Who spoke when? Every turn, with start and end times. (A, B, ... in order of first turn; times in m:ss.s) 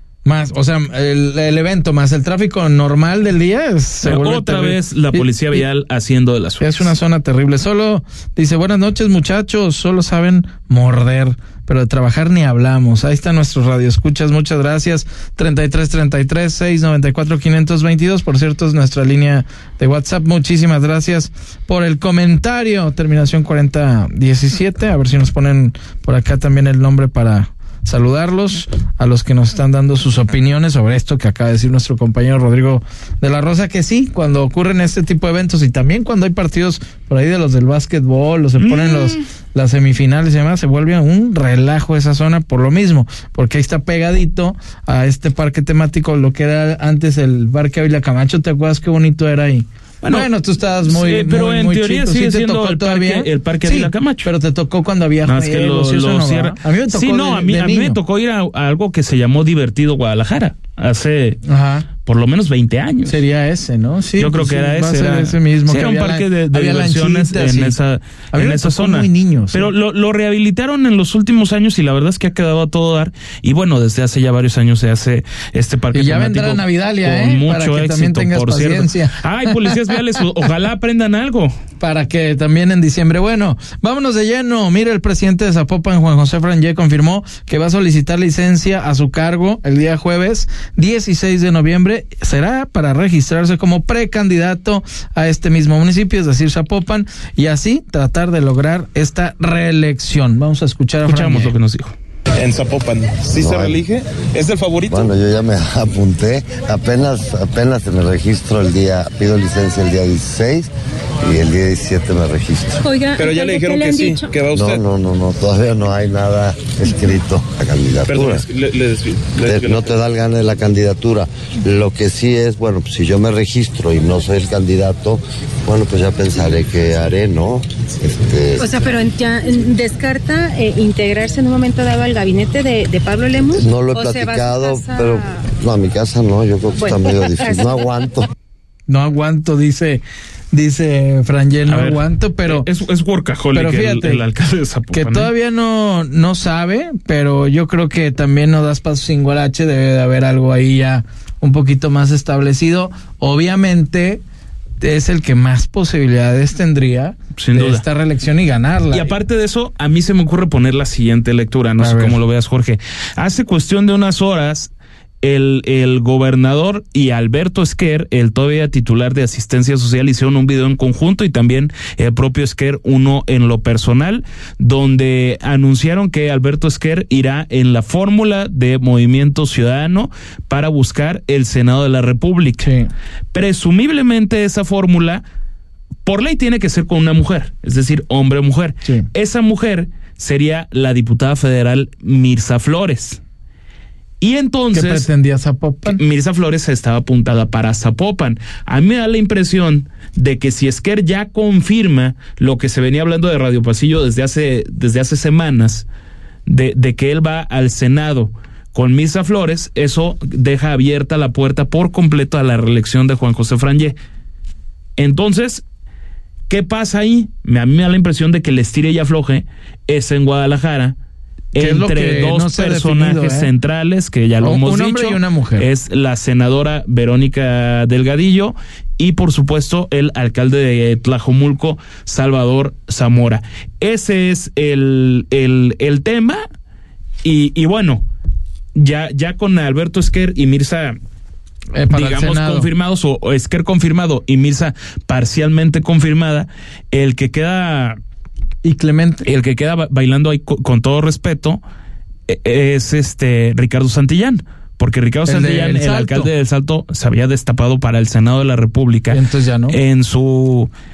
0:00.2-0:05.6 A
0:04.0-0:06.9 B
0:06.6-0:58.0 A
0:38.6-0:39.2 B
0:50.0-0:50.3 B
0:50.9-0:54.3 B
0:55.2-1:01.4 B
1:01.4-1:01.9 A
1:02.0-1:03.1 B
1:03.0-1:07.7 A
1:04.2-1:21.6 B
1:08.3-1:09.7 A
1:15.9-1:20.0 A
1:21.8-1:41.5 A
1:41.0-1:41.9 B
1:42.5-1:43.8 C
1:43.2-1:45.1 B
1:43.3-1:43.8 D
1:44.8-1:50.7 D
1:51.2-1:52.8 D
1:52.8-1:54.3 E
1:53.2-1:54.5 C
1:53.2-1:54.8 B
1:54.5-1:58.4 D
1:58.1-2:00.0 B
1:59.4-2:08.9 D
2:08.6-2:15.3 E
2:13.6-2:18.3 D
2:16.8-2:17.8 E
2:18.9-2:22.7 A
2:21.7-2:25.3 B
2:23.5-2:24.2 A
2:24.9-2:34.2 A
2:34.8-2:39.1 A
2:37.4-2:37.8 B
2:38.9-2:44.7 B
2:41.8-2:42.2 A
2:45.2-3:02.7 B
3:02.6-3:02.9 A
3:03.3-3:05.2 B
3:06.0-3:13.2 B
3:14.2-3:15.1 B
3:14.7-3:16.0 A
3:15.9-3:25.8 B
3:26.5-3:34.0 B
3:35.0-3:35.6 B
3:36.5-3:41.0 B
3:41.5-3:56.4 B
3:41.6-3:43.5 A
3:44.4-3:45.7 A
3:57.2-3:58.0 B
3:58.7-4:01.0 B
4:01.7-4:02.7 A
4:01.9-4:08.0 B
4:08.6-4:09.2 A
4:09.2-4:11.6 B
4:12.3-4:20.7 B
4:15.2-4:16.3 A
4:19.1-4:19.8 A